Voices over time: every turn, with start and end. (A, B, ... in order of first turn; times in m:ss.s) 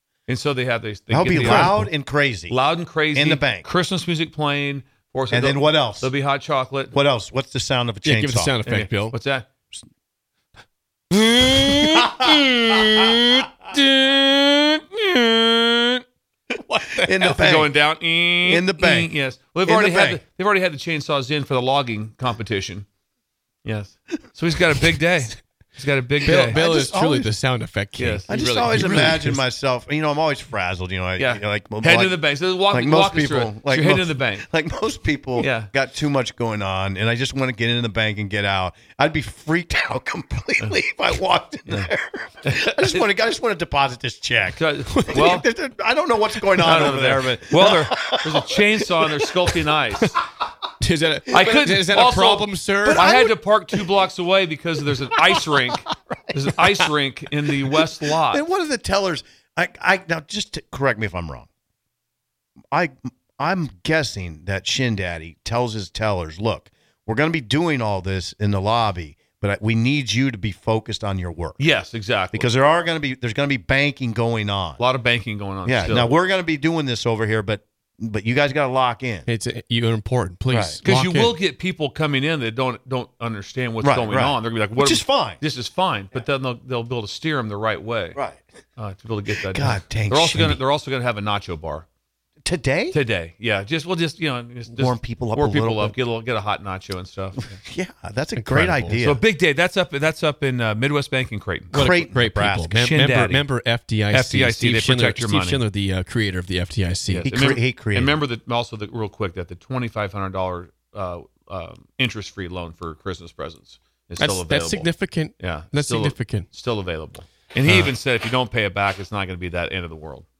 0:00.3-0:01.8 A
0:01.1-0:02.6 B
0:01.3-0:01.9 C
0:02.5-0:07.0 A
0:03.1-0:03.7 B
0:05.3-0:06.1 B
0:06.9-0:08.6 B
0:08.0-0:09.2 C
0:08.6-0:09.4 A
0:11.1-0:16.0 A
0:11.6-0:13.1 B
0:16.8-0:17.7 B
0:17.0-0:22.8 A
0:18.4-0:19.1 B
0:19.6-0:20.2 B
0:23.6-0:26.6 A
0:26.2-0:29.4 C
0:26.2-0:27.3 B
0:28.0-0:28.8 A
0:28.3-0:49.7 B
0:31.2-0:34.5 A
0:35.4-0:35.7 A
0:42.4-0:43.0 A
0:44.6-0:45.5 A
0:46.6-0:50.2 A
0:50.8-0:53.0 C
0:51.3-0:58.4 A
0:52.8-0:53.8 B
0:55.1-0:55.8 B
0:56.3-0:56.8 B
0:57.7-1:01.5 B
1:02.7-1:11.6 B
1:11.6-1:12.5 A
1:12.3-1:14.8 B
1:14.8-1:16.1 A
1:15.6-1:19.3 B
1:19.3-1:21.3 C
1:20.5-1:20.8 B
1:20.8-1:28.2 A
1:23.8-1:25.4 B
1:28.1-1:28.4 B
1:28.8-1:31.8 A
1:29.4-1:30.6 B
1:32.4-1:33.0 B
1:32.9-1:37.6 A
1:34.7-1:36.0 B
1:37.5-1:39.2 B
1:38.4-1:38.9 C
1:39.0-1:41.9 A
1:41.7-1:42.9 B
1:41.7-1:47.3 C
1:42.7-1:43.4 A
1:44.1-1:45.6 A
1:47.1-2:00.2 A
1:47.2-1:48.2 B
1:54.2-1:56.4 C